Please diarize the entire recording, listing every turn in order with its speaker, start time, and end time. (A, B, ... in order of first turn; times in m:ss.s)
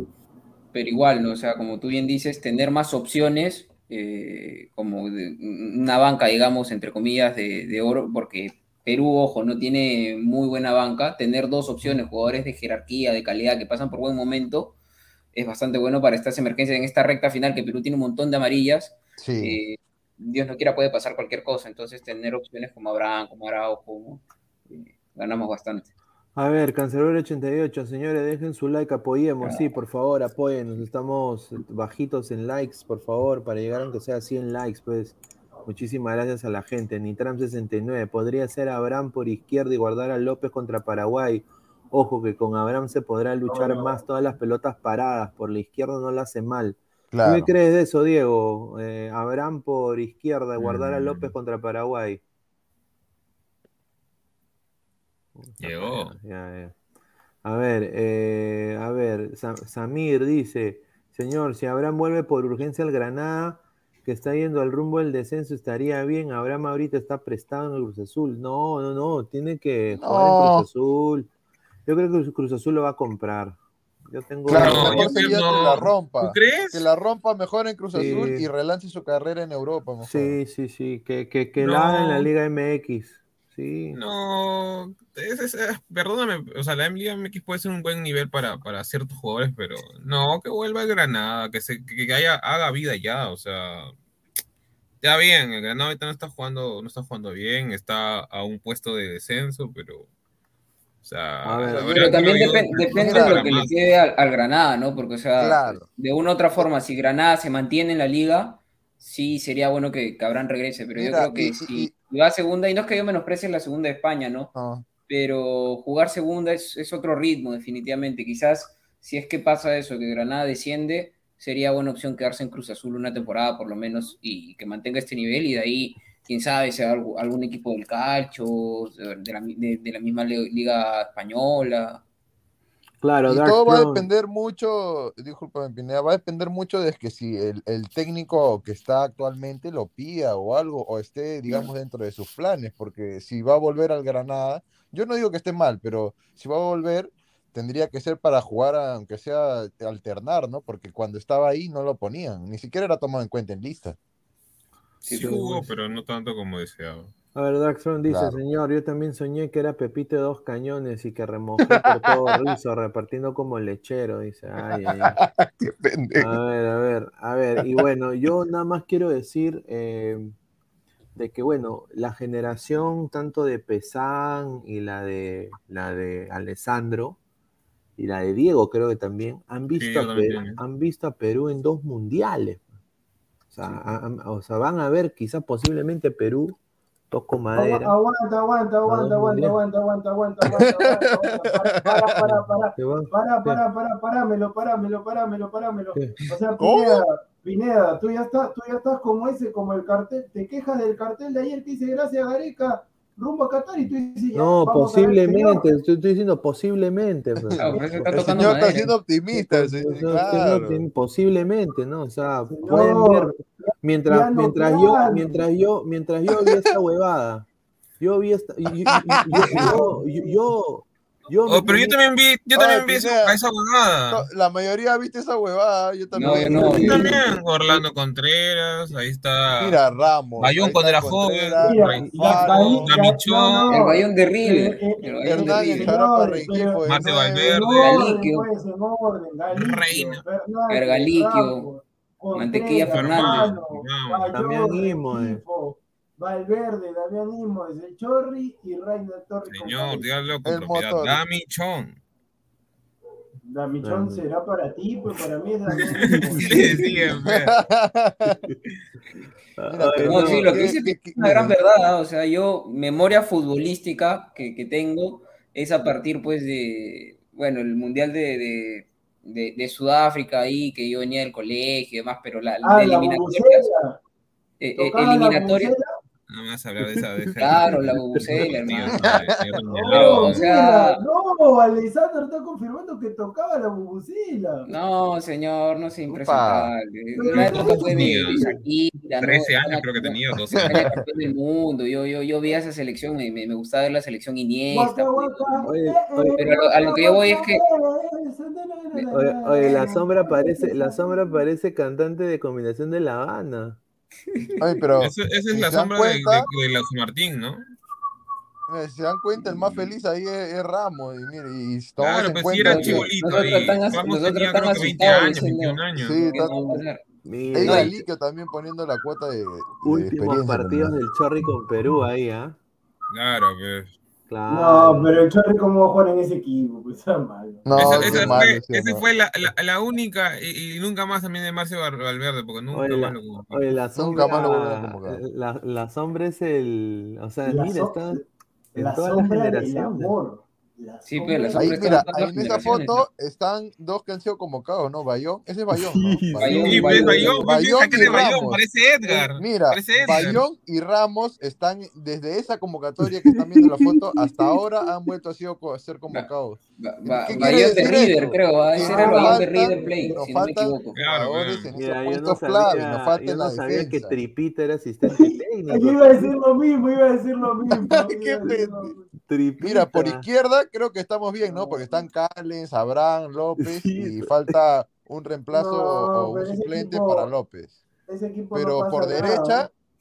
0:00.7-0:14.7 A
0:15.3-0:25.9 A
0:19.2-0:19.6 B
0:26.4-0:52.2 C
0:47.1-0:47.5 B
0:50.6-0:51.3 D
0:55.3-0:56.7 C
0:55.6-0:56.1 D
0:57.4-1:11.3 C
1:09.9-1:10.6 B
1:11.8-1:15.5 C
1:14.5-1:20.4 B
1:14.5-1:16.8 D
1:17.9-1:18.5 C
1:20.0-1:24.0 C
1:21.6-1:22.3 D
1:23.9-1:33.9 D
1:35.0-1:40.1 D
1:41.0-1:43.7 D
1:41.4-1:42.1 C
1:41.7-1:43.5 B
1:41.9-1:54.5 A
1:45.4-1:45.9 B
1:50.9-1:51.9 B
1:54.5-1:54.8 B
1:55.1-2:12.0 A
2:13.0-2:14.1 C
2:13.3-2:34.0 B
2:35.0-2:37.1 D
2:35.1-2:35.4 A
2:35.1-2:35.7 C
2:37.3-2:45.2 C
2:38.1-2:38.4 B
2:41.7-2:42.4 B
2:45.0-2:46.4 B
2:46.2-2:50.4 C
2:51.1-2:57.2 C
2:58.0-3:02.6 C
2:59.7-3:00.6 D
3:03.5-3:06.6 C
3:07.1-3:07.9 C
3:07.5-3:25.6 E
3:08.9-3:09.6 C
3:10.6-3:11.0 B
3:11.7-3:12.1 B
3:12.8-3:13.6 C
3:16.6-3:17.0 B
3:24.3-3:28.5 C
3:27.6-3:29.0 A
3:28.1-3:30.8 B
3:29.3-3:37.5 C
3:32.5-3:35.4 E
3:36.4-3:36.7 B
3:38.0-3:42.0 C
3:38.9-3:39.6 B
3:39.4-3:40.4 E
3:41.5-3:44.2 D
3:42.5-3:43.4 B
3:44.1-3:47.1 B
3:46.1-3:47.1 A
3:46.6-3:47.1 E
3:46.6-3:49.8 D
3:49.6-3:52.9 B
3:50.4-3:53.7 D
3:51.6-3:56.8 E
3:53.7-3:56.0 A
3:55.2-3:57.8 B
3:56.8-3:57.9 D
3:57.5-4:10.1 E
3:57.7-3:58.5 A
3:59.5-4:00.2 D
4:00.7-4:01.7 A
4:02.3-4:03.5 A
4:02.9-4:04.4 D
4:04.3-4:05.4 C
4:09.5-4:12.0 D
4:10.4-4:11.2 B
4:13.4-4:16.8 E
4:13.8-4:14.2 C
4:16.3-4:17.6 D
4:16.4-4:18.4 B
4:19.6-4:20.6 C
4:19.7-4:21.5 B
4:20.0-4:33.7 A
4:32.6-4:34.0 E
4:34.6-4:35.7 A
4:34.8-4:35.8 E
4:36.3-4:40.4 D
4:36.8-4:38.5 C
4:37.4-4:39.1 A
4:39.0-4:39.5 B
4:39.7-4:44.7 E
4:39.8-4:41.0 A
4:44.6-4:55.7 A
4:46.1-4:46.7 B
4:47.2-4:48.6 E
4:47.3-4:48.4 D
4:49.2-4:50.7 D
4:50.5-4:51.0 B
4:54.7-5:01.4 E
4:55.6-4:56.4 C
4:56.4-4:57.6 A
4:59.1-5:03.8 C
5:04.3-5:04.7 A
5:04.6-5:06.5 B
5:05.0-5:07.6 D
5:08.7-5:13.1 B
5:12.0-5:16.2 D
5:12.6-5:17.0 A
5:15.9-5:16.6 B
5:16.4-5:18.0 C
5:17.5-5:21.0 B
5:17.6-5:17.9 A
5:19.8-5:22.6 C
5:23.1-5:23.9 D
5:24.3-5:25.2 C
5:24.5-5:27.6 E
5:27.6-5:29.0 B
5:27.7-5:33.6 D
5:28.0-5:28.4 C
5:32.7-5:38.2 C
5:33.9-5:35.2 B
5:37.4-5:38.2 E
5:38.7-5:40.1 C
5:38.7-5:41.7 E
5:41.0-5:43.0 A
5:41.5-5:48.6 B
5:45.7-5:47.4 C
5:46.4-5:47.4 A
5:46.6-5:50.4 D
5:49.4-6:04.2 B
5:53.3-5:54.6 C
5:56.1-6:01.0 A
5:57.5-5:57.9 E
5:58.8-6:00.2 E
6:00.9-6:01.7 D
6:01.7-6:06.3 C
6:05.1-6:09.1 E
6:07.8-6:08.9 B
6:09.1-6:10.2 C
6:09.6-6:17.8 B
6:11.4-6:12.1 E
6:13.6-6:14.3 C
6:15.5-6:17.3 E
6:18.1-6:19.7 E
6:18.5-6:19.7 B